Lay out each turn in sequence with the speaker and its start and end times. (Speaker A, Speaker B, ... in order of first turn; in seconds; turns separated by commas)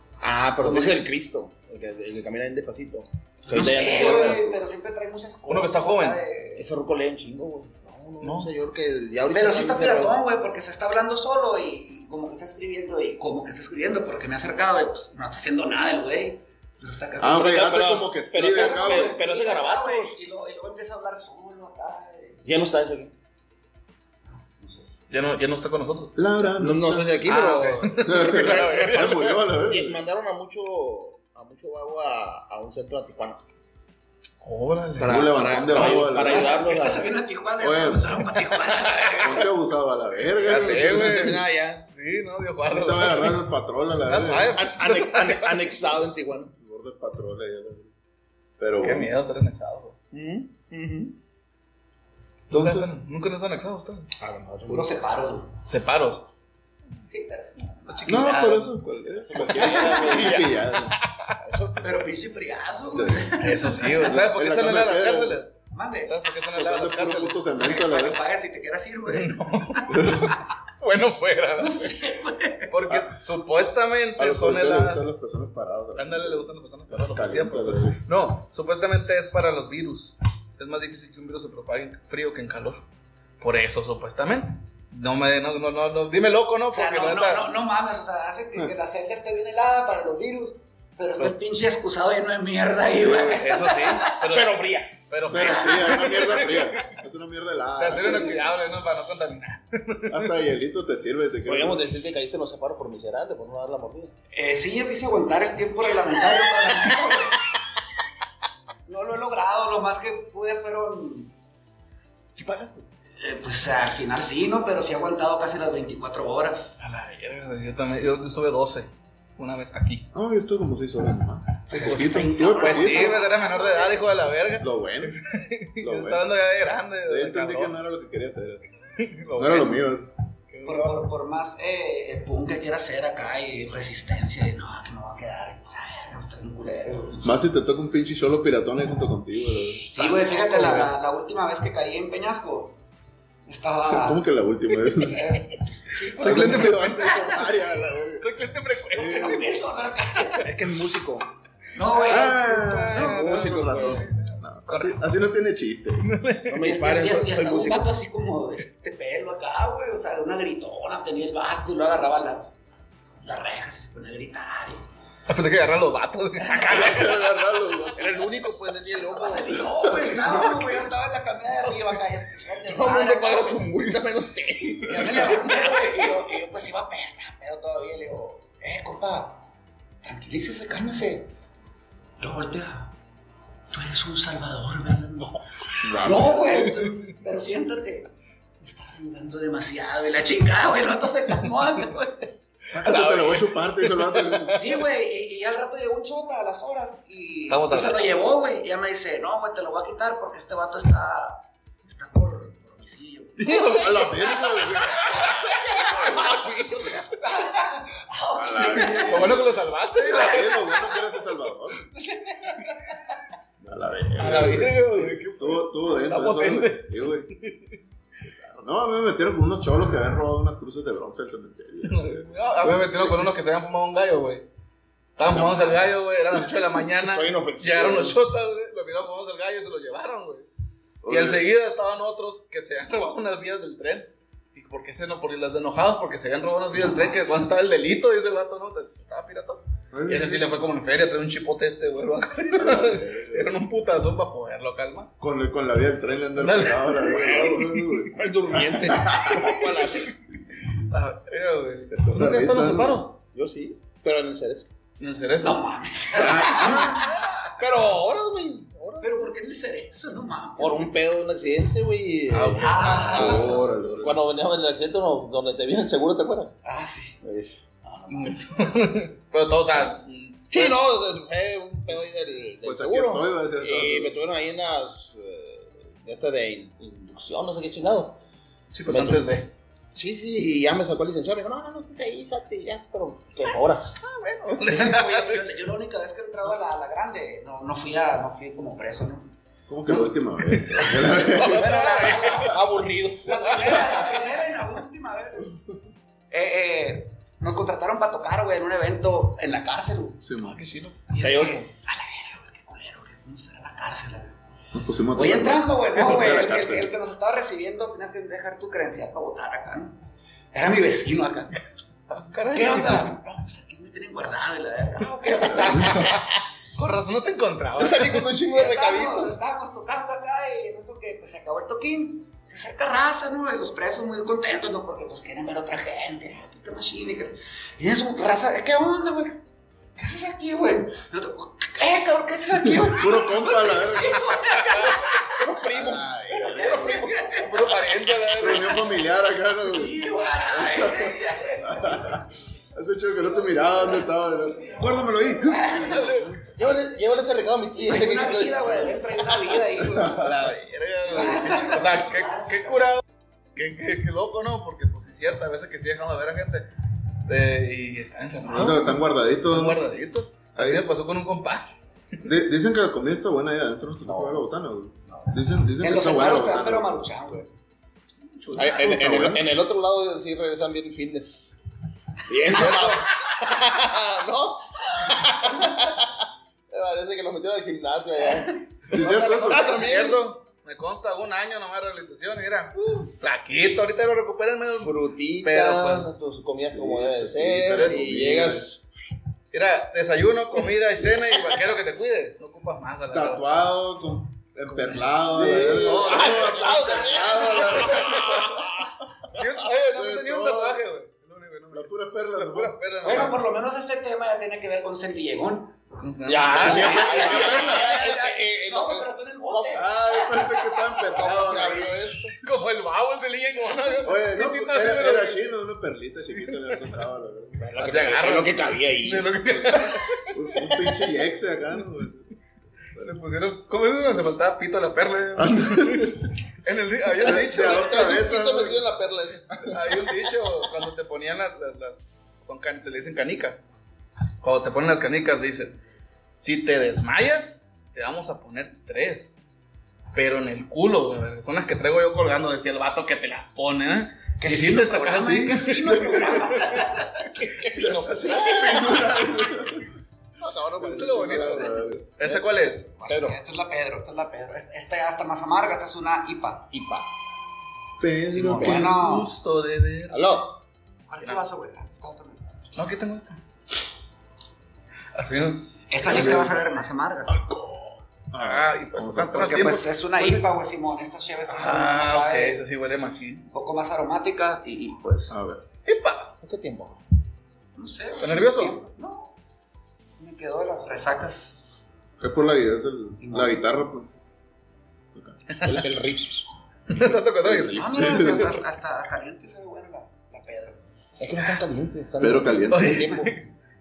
Speaker A: 0.2-4.5, Speaker B: 0.6-1.0, Speaker B: 3.5-6.7, Speaker C: 5.5-6.2, Speaker A: 6.6-10.2, Speaker C: 8.2-8.5, Speaker B: 9.3-17.8, Speaker D: 17.2-19.2, Speaker A: 17.3-20.2, Speaker B: 18.4-22.4, Speaker A: 22.4-23.1, Speaker B: 24.4-24.9, Speaker C: 25.1-26.2, Speaker D: 26.2-27.3, Speaker A: 26.6-33.4, Speaker C: 27.2-29.4, Speaker D: 28.0-30.0, Speaker C: 34.4-36.0, Speaker A: 35.0-37.1, Speaker D: 35.0-36.6, Speaker B: 36.0-39.5, Speaker D: 37.6-38.2, Speaker C: 38.4-39.4, Speaker D: 39.2-41.4, Speaker C: 40.4-43.4, Speaker A: 40.4-41.9, Speaker D: 42.7-44.6, Speaker C: 44.1-46.0, Speaker A: 44.5-46.5, Speaker D: 46.6-47.9, Speaker D: 48.6-49.1, Speaker C: 48.8-50.0, Speaker A: 50.1-51.2, Speaker D: 52.5-53.0, Speaker C: 52.5-54.1, Speaker A: 54.2-54.9, Speaker B: 54.7-55.6, Speaker C: 55.7-56.3, Speaker B: 57.0-58.3, Speaker C: 57.9-58.8, Speaker D: 58.1-61.0, Speaker A: 59.3-60.5, Speaker C: 59.5-61.4, Speaker B: 59.6-60.2, Speaker A: 61.4-61.9, Speaker B: 61.8-64.1, Speaker D: 62.9-63.4, Speaker C: 63.4-65.5, Speaker D: 64.0-65.4, Speaker B: 65.7-66.2, Speaker C: 66.1-67.8, Speaker D: 66.5-68.2, Speaker B: 67.6-70.3, Speaker C: 69.1-72.0, Speaker D: 69.9-70.3, Speaker B: 71.6-72.7, Speaker C: 72.7-75.2, Speaker D: 72.9-73.2, Speaker D: 74.2-78.0, Speaker C: 76.0-82.8, Speaker C: 83.4-87.5, Speaker B: 86.7-94.3, Speaker D: 93.0-93.5, Speaker C: 93.3-97.0, Speaker A: 94.1-94.9, Speaker D: 95.3-98.5, Speaker B: 95.4-96.1, Speaker C: 97.8-100.3, Speaker D: 100.1-102.0, Speaker A: 101.5-104.1, Speaker B: 104.3-107.4, Speaker A: 106.7-106.9, Speaker B: 108.9-111.3, Speaker A: 112.4-112.8, Speaker B: 113.2-116.8, Speaker C: 116.8-120.1, Speaker D: 120.1-123.2, Speaker B: 121.7-124.1, Speaker C: 122.6-127.8, Speaker D: 124.6-125.2, Speaker D: 125.8-126.2, Speaker D: 127.1-128.6, Speaker C: 129.0-129.9, Speaker D: 129.3-130.1, Speaker C: 130.5-131.1, Speaker B: 130.6-137.4, Speaker D: 137.2-139.9, Speaker B: 139.9-142.8, Speaker C: 140.0-140.8, Speaker B: 143.5-144.2, Speaker D: 143.9-145.4, Speaker B: 145.0-147.0, Speaker D: 146.2-149.4, Speaker C: 146.2-147.4, Speaker C: 148.2-149.6, Speaker B: 148.9-150.5, Speaker A: 150.3-151.2, Speaker B: 151.7-152.9, Speaker C: 152.0-155.1, Speaker D: 152.1-156.1, Speaker A: 152.1-154.1, Speaker C: 156.0-156.8, Speaker A: 156.5-157.9, Speaker B: 156.6-162.5, Speaker B: 163.2-164.8, Speaker C: 165.3-167.3, Speaker D: 166.7-168.2, Speaker A: 167.9-169.7, Speaker B: 168.9-173.7, Speaker A: 172.7-176.1, Speaker B: 174.8-179.4, Speaker B: 180.0-181.3, Speaker B: 182.2-182.9, Speaker B: 183.7-188.1, Speaker D: 185.8-186.5, Speaker C: 186.5-186.9, Speaker B: 188.6-192.3, Speaker D: 192.7-194.7, Speaker C: 192.7-194.6, Speaker B: 194.5-206.3, Speaker C: 197.5-198.2, Speaker C: 203.4-204.0, Speaker D: 203.4-206.3, Speaker A: 205.8-207.1, Speaker B: 207.1-209.4, Speaker D: 208.3-211.8, Speaker C: 208.7-210.6, Speaker B: 210.1-210.4, Speaker B: 211.9-213.2, Speaker D: 213.6-217.3, Speaker C: 214.2-217.8, Speaker D: 218.2-223.2, Speaker C: 221.8-224.5, Speaker C: 225.2-230.5, Speaker D: 225.2-225.7, Speaker A: 227.0-228.2, Speaker D: 231.0-231.4, Speaker C: 231.1-245.1, Speaker D: 239.9-240.5, Speaker D: 242.5-243.6, Speaker D: 245.2-249.6, Speaker C: 246.4-247.4, Speaker A: 247.0-250.1, Speaker C: 249.3-250.1, Speaker C: 250.8-253.2, Speaker D: 251.9-253.0, Speaker A: 253.3-254.7, Speaker C: 255.0-255.6, Speaker B: 255.4-257.5, Speaker D: 256.1-257.1, Speaker A: 257.6-259.1, Speaker B: 259.0-260.9, Speaker A: 260.6-266.6, Speaker C: 262.3-263.3, Speaker B: 262.6-263.6, Speaker D: 263.0-264.2, Speaker B: 266.6-267.2, Speaker A: 267.2-267.6, Speaker B: 267.9-268.4, Speaker C: 268.1-270.8, Speaker A: 270.5-278.2, Speaker D: 272.6-274.2, Speaker C: 278.7-279.5, Speaker A: 278.9-279.2, Speaker A: 279.9-284.0, Speaker C: 284.0-285.4, Speaker B: 284.6-289.3, Speaker D: 289.7-291.8, Speaker B: 289.9-290.1, Speaker C: 290.7-292.5, Speaker B: 290.8-292.6, Speaker A: 292.4-294.0, Speaker B: 293.2-295.6, Speaker B: 296.3-300.2, Speaker D: 300.2-300.6, Speaker C: 300.4-301.0, Speaker B: 301.1-304.3, Speaker A: 301.2-301.7, Speaker D: 304.7-306.9, Speaker B: 305.1-310.0, Speaker B: 310.5-311.5, Speaker C: 312.1-313.1, Speaker B: 312.5-316.1, Speaker C: 315.4-318.3, Speaker D: 315.6-316.1, Speaker A: 317.8-319.4, Speaker B: 318.5-329.4, Speaker B: 330.0-335.5, Speaker D: 332.6-334.4, Speaker C: 334.5-335.0, Speaker A: 335.2-337.4, Speaker D: 335.7-336.9, Speaker B: 336.3-337.9, Speaker C: 337.3-338.9, Speaker D: 338.4-346.8, Speaker B: 339.6-342.2, Speaker B: 344.8-346.1, Speaker C: 345.6-346.4, Speaker A: 346.5-349.6, Speaker B: 347.8-350.3, Speaker D: 349.9-350.5, Speaker C: 350.0-353.0, Speaker B: 351.1-352.5, Speaker C: 353.6-356.7, Speaker C: 357.2-361.7, Speaker D: 358.4-359.8, Speaker D: 360.6-360.9, Speaker D: 362.2-366.9, Speaker A: 364.1-364.4, Speaker B: 365.8-367.5, Speaker C: 368.3-368.9, Speaker A: 368.6-371.6, Speaker D: 368.6-369.5, Speaker A: 372.2-378.6, Speaker C: 372.5-373.2, Speaker B: 378.5-380.1, Speaker D: 378.9-379.8, Speaker A: 379.4-380.2, Speaker C: 379.6-386.1, Speaker A: 384.8-388.8, Speaker D: 386.7-388.7, Speaker C: 387.7-388.0, Speaker C: 389.5-393.5, Speaker A: 391.2-391.6, Speaker D: 393.1-398.7, Speaker A: 395.3-399.4, Speaker C: 395.7-398.7, Speaker C: 399.3-403.4, Speaker D: 399.9-400.8, Speaker D: 401.7-403.3, Speaker B: 403.0-405.8, Speaker C: 406.0-407.3, Speaker A: 406.2-409.8, Speaker B: 406.5-411.6, Speaker D: 406.6-408.0, Speaker D: 409.7-412.0, Speaker A: 411.1-412.4, Speaker C: 412.3-415.4, Speaker D: 414.0-417.7, Speaker C: 416.3-416.9, Speaker A: 417.6-419.8, Speaker C: 417.8-420.3, Speaker D: 419.5-422.4, Speaker C: 423.0-428.2, Speaker D: 425.4-426.3, Speaker D: 427.2-428.9, Speaker A: 427.2-430.2, Speaker C: 429.6-433.6, Speaker C: 434.4-435.8, Speaker C: 436.4-439.3, Speaker C: 440.1-446.9, Speaker B: 444.4-447.3, Speaker A: 447.3-449.1, Speaker D: 447.8-449.9, Speaker A: 450.4-452.4, Speaker D: 450.8-452.0, Speaker C: 450.8-452.9, Speaker B: 453.0-456.7, Speaker A: 453.1-453.4, Speaker A: 456.7-457.1, Speaker D: 458.0-458.9, Speaker B: 458.3-459.3, Speaker C: 458.6-460.4, Speaker A: 460.1-460.6, Speaker B: 461.1-462.5, Speaker C: 462.8-463.4, Speaker C: 465.1-466.4, Speaker B: 465.9-467.4, Speaker D: 466.1-466.6, Speaker D: 467.3-469.6, Speaker C: 468.4-470.4, Speaker B: 469.3-472.6, Speaker C: 471.5-473.4, Speaker B: 473.5-475.4, Speaker D: 475.3-475.6, Speaker C: 475.9-476.3, Speaker A: 476.4-477.0, Speaker B: 477.8-479.3, Speaker C: 478.2-478.8, Speaker B: 480.2-481.6, Speaker D: 482.2-484.1, Speaker B: 483.2-483.6, Speaker D: 485.1-485.4, Speaker C: 485.5-485.8, Speaker A: 485.6-486.5, Speaker C: 486.9-488.5, Speaker D: 487.4-488.6, Speaker B: 487.7-490.8, Speaker A: 491.2-493.3, Speaker D: 492.2-493.1, Speaker C: 492.7-493.5